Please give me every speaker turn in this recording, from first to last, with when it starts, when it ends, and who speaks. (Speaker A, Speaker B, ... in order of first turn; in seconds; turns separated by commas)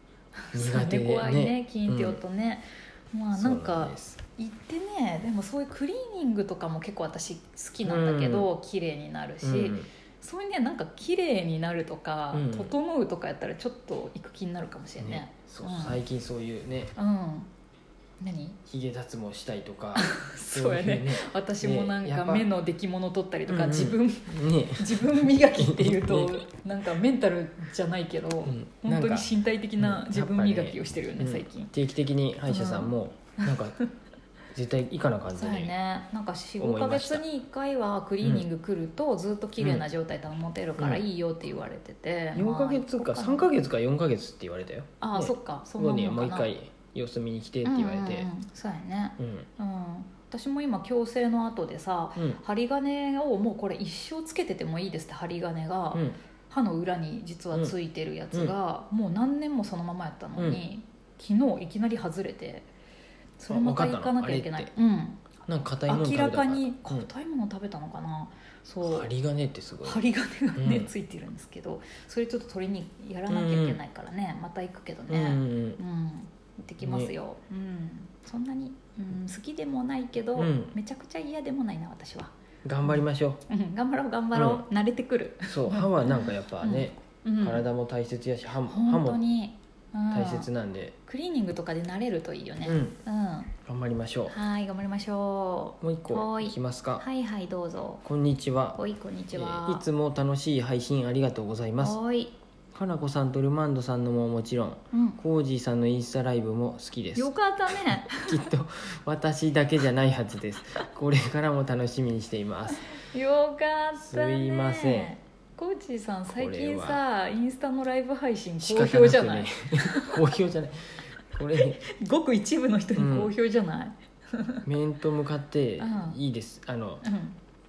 Speaker A: 0.4-16.0, Speaker B: 0.5-2.2, Speaker B: 3.3-4.2, Speaker B: 7.8-8.5, Speaker B: 9.4-9.9, Speaker B: 12.3-12.7, Speaker B: 15.0-16.9, Speaker A: 16.9-17.5, Speaker A: 18.2-18.6, Speaker B: 18.6-22.5, Speaker A: 19.9-31.7, Speaker B: 23.5-26.4, Speaker B: 28.4-33.8, Speaker A: 32.5-33.9, Speaker B: 34.5-35.7, Speaker A: 35.3-43.5, Speaker B: 36.6-37.2, Speaker B: 38.2-38.5, Speaker B: 39.6-39.8, Speaker B: 40.8-41.0, Speaker B: 42.3-48.3, Speaker A: 45.0-46.5, Speaker A: 47.6-62.7, Speaker B: 49.2-49.5, Speaker B: 60.4-60.6, Speaker A: 63.4-65.2, Speaker B: 63.5-64.7, Speaker B: 65.5-67.1, Speaker A: 65.9-69.1, Speaker B: 68.8-70.9, Speaker A: 69.8-82.3, Speaker B: 73.3-73.8, Speaker B: 75.1-75.8, Speaker B: 76.8-77.1, Speaker B: 80.3-80.7, Speaker B: 82.6-83.4, Speaker A: 82.8-87.6, Speaker B: 84.3-84.6, Speaker B: 85.5-89.2, Speaker A: 88.7-90.5, Speaker B: 90.1-90.9, Speaker A: 91.0-93.5, Speaker B: 92.6-93.0, Speaker B: 93.7-94.4, Speaker A: 94.3-98.0, Speaker B: 95.8-97.0, Speaker B: 98.0-98.8, Speaker A: 98.7-99.8, Speaker B: 99.3-102.0, Speaker A: 101.8-102.3, Speaker B: 102.7-112.9, Speaker A: 104.9-105.2, Speaker A: 107.1-108.4, Speaker A: 112.9-120.2, Speaker B: 114.0-115.1, Speaker B: 116.3-117.0, Speaker B: 118.6-121.8, Speaker A: 121.5-124.6, Speaker B: 123.0-123.3, Speaker B: 124.6-127.0, Speaker A: 125.8-126.2, Speaker A: 127.0-127.4